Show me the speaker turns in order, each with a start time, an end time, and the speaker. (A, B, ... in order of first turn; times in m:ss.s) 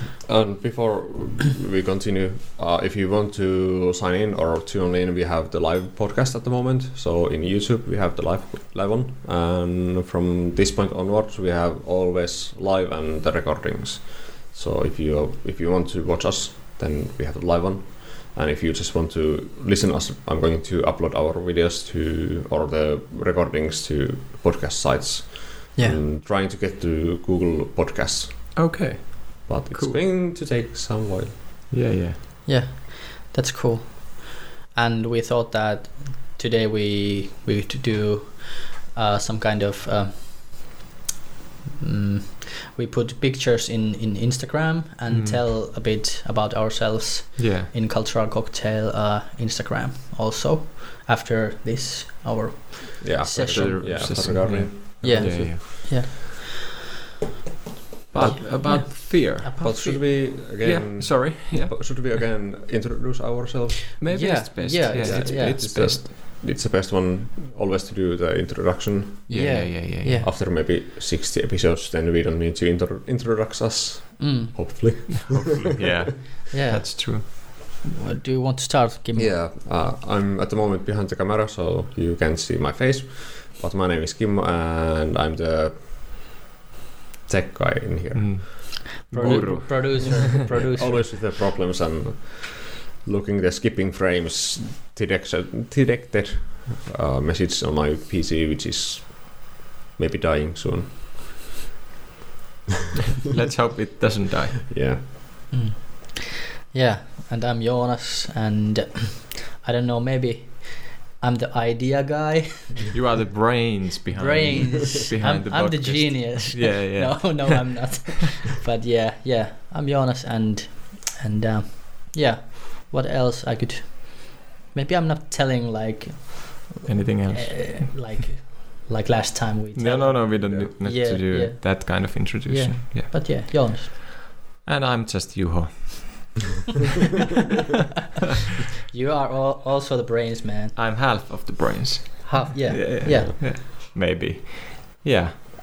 0:00.2-0:28.7 A
0:28.6-0:30.0 B
0:29.5-0:31.3 A
0:31.7-0:32.2 B
0:32.4-0:40.8 C
0:41.8-0:54.0 C
0:45.1-0:45.4 B
0:47.4-0:47.7 B
0:53.0-0:55.6 A
0:53.4-0:55.6 B
0:55.0-0:56.5 C
0:58.1-1:02.2 B
0:58.1-1:00.0 C
0:59.6-1:04.0 A
1:04.0-1:06.1 B
1:04.1-1:05.6 C
1:05.0-1:09.5 A
1:09.3-1:10.2 B
1:09.3-1:10.3 C
1:10.2-1:16.0 A
1:14.2-1:14.8 C
1:15.1-1:17.2 B
1:16.5-1:19.4 C
1:19.2-1:26.3 A
1:27.3-1:40.9 A
1:28.1-1:30.2 B
1:29.1-1:31.1 C
1:43.2-1:44.6 B
1:44.7-1:45.0 A
1:45.5-1:52.9 C
1:52.9-1:58.0 B
1:54.1-2:13.9 C
2:06.8-2:08.2 B
2:09.7-2:13.9 B
2:10.4-2:10.7 A
2:14.6-2:16.5 B
2:18.9-2:20.8 C
2:20.8-2:25.3 B
2:22.2-2:23.5 C